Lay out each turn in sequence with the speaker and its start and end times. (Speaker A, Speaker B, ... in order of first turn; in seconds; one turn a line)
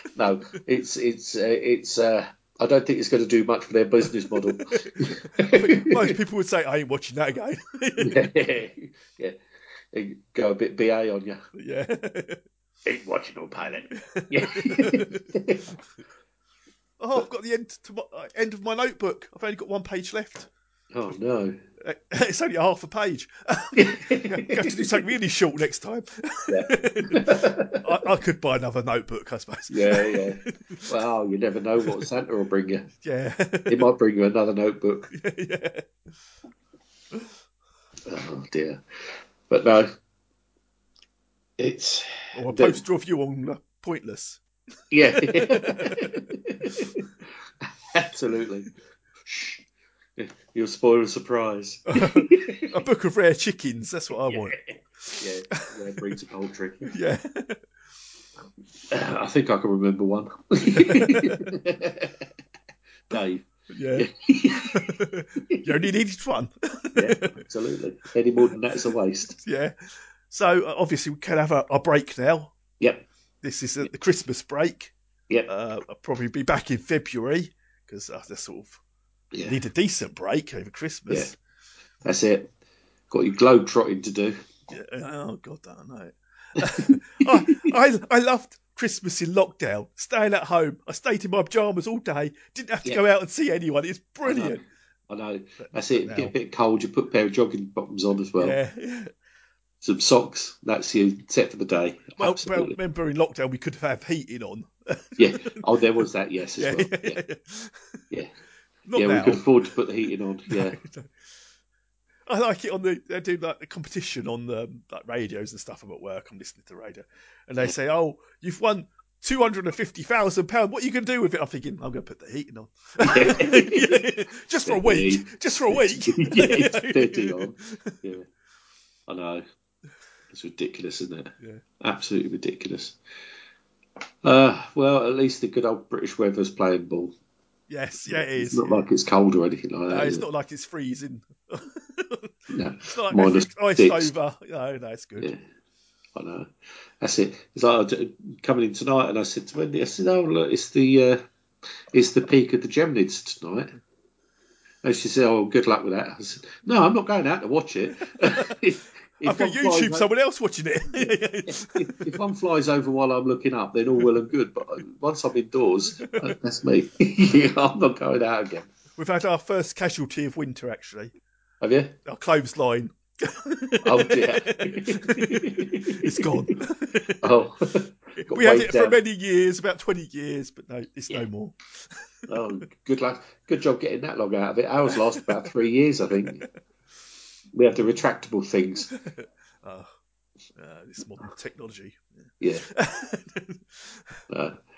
Speaker A: 0.1-6.2
Speaker B: 5.0-8.3
Speaker A: 8.0-9.4
Speaker A: 9.9-11.4
Speaker B: 11.6-12.4
Speaker A: 12.9-15.6
Speaker B: 14.0-15.2
Speaker B: 17.0-20.5
Speaker A: 20.9-21.6
Speaker B: 21.8-30.9
Speaker A: 23.8-25.0
Speaker A: 26.5-27.8
Speaker A: 29.7-32.9
Speaker B: 33.0-33.9
Speaker A: 33.7-35.1
Speaker B: 35.1-35.8
Speaker A: 38.1-38.8
Speaker A: 39.5-39.9
Speaker A: 41.6-42.8
Speaker B: 42.4-44.4
Speaker A: 44.9-47.0
Speaker B: 45.2-46.1
Speaker A: 47.9-48.7
Speaker A: 49.3-49.6
Speaker A: 50.2-52.6
Speaker B: 51.9-55.6
Speaker A: 55.2-56.9
Speaker B: 56.9-57.6
Speaker A: 58.9-62.1
Speaker B: 60.8-61.4
Speaker A: 63.1-63.4
Speaker B: 63.7-64.1
Speaker A: 64.0-64.8
Speaker B: 64.7-67.3
Speaker A: 67.0-69.4
Speaker B: 69.4-72.5
Speaker A: 72.8-73.0
Speaker B: 73.4-74.9
Speaker B: 75.5-78.8
Speaker A: 79.3-79.6
Speaker B: 79.5-81.3
Speaker A: 82.0-82.5
Speaker A: 83.1-84.4
Speaker B: 84.7-94.6
Speaker A: 94.3-94.6
Speaker A: 95.1-98.6
Speaker B: 95.6-96.3
Speaker B: 98.4-99.1
Speaker A: 99.8-102.8
Speaker B: 102.2-105.5
Speaker A: 105.2-107.2
Speaker B: 106.6-108.0
Speaker B: 108.9-109.5
Speaker A: 109.0-110.8
Speaker B: 110.5-111.1
Speaker B: 112.3-127.9
Speaker A: 123.0-124.0
Speaker A: 124.7-128.2
Speaker A: 129.1-129.4
Speaker A: 130.3-133.0
Speaker A: 134.2-137.1
Speaker B: 137.7-138.8
Speaker A: 138.1-140.2
Speaker B: 139.9-142.3
Speaker A: 142.5-144.1
Speaker B: 142.9-145.3
Speaker A: 146.2-151.2
Speaker A: 151.9-153.7
Speaker A: 154.8-160.1
Speaker B: 159.2-162.1
Speaker A: 161.8-168.7
Speaker B: 169.0-171.1
Speaker A: 171.6-171.9
Speaker B: 172.1-177.4
Speaker A: 173.8-176.5
Speaker A: 177.2-179.0
Speaker B: 178.3-181.6
Speaker A: 182.3-186.4
Speaker A: 187.6-188.9
Speaker B: 188.9-189.9
Speaker B: 190.6-193.6